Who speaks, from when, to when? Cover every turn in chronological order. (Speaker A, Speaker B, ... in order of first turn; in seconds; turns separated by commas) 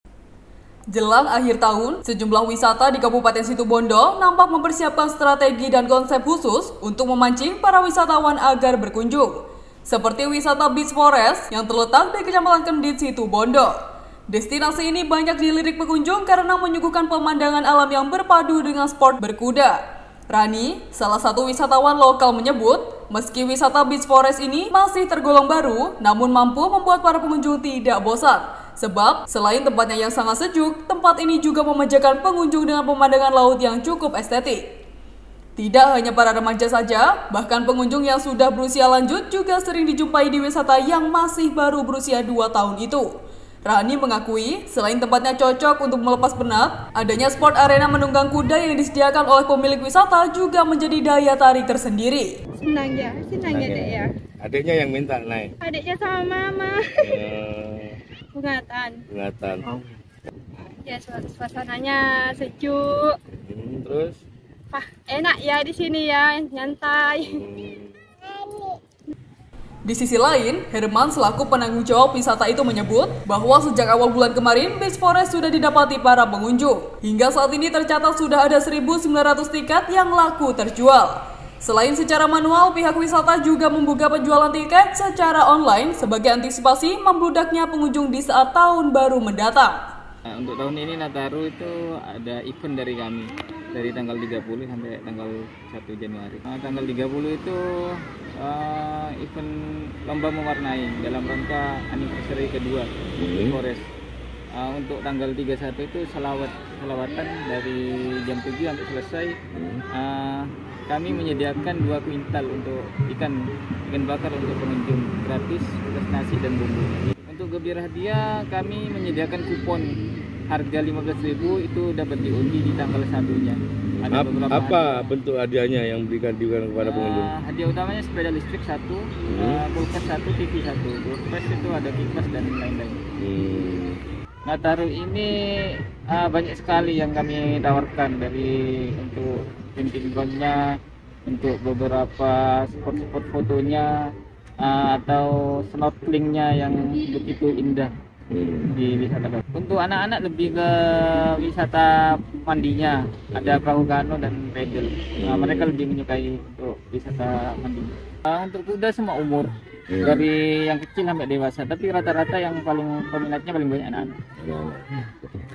Speaker A: 0.9-13.7, Speaker A: 14.3-19.8, Speaker A: 20.3-34.6, Speaker A: 35.6-43.0, Speaker A: 43.6-52.3, Speaker B: 52.6-54.1, Speaker C: 53.4-55.5, Speaker B: 55.6-57.2, Speaker C: 57.0-58.0, Speaker B: 58.3-59.0, Speaker C: 59.1-59.7, Speaker B: 60.6-63.2, Speaker C: 63.5-64.2, Speaker B: 64.7-67.4, Speaker C: 67.3-68.0, Speaker B: 68.3-68.8, Speaker A: 69.8-89.8, Speaker D: 90.3-99.5, Speaker D: 100.0-103.8, Speaker C: 103.2-103.6, Speaker D: 104.5-109.4, Speaker C: 109.5-109.8, Speaker D: 109.9-119.9, Speaker D: 120.5-125.1, Speaker C: 124.1-127.3, Speaker D: 126.8-133.0, Speaker C: 129.3-129.6, Speaker C: 133.2-134.0, Speaker D: 134.4-140.6, Speaker D: 141.2-143.9, Speaker D: 144.6-147.9, Speaker C: 148.3-148.7, Speaker D: 148.7-164.2, Speaker C: 155.2-155.8, Speaker C: 159.9-160.3, Speaker C: 164.4-165.1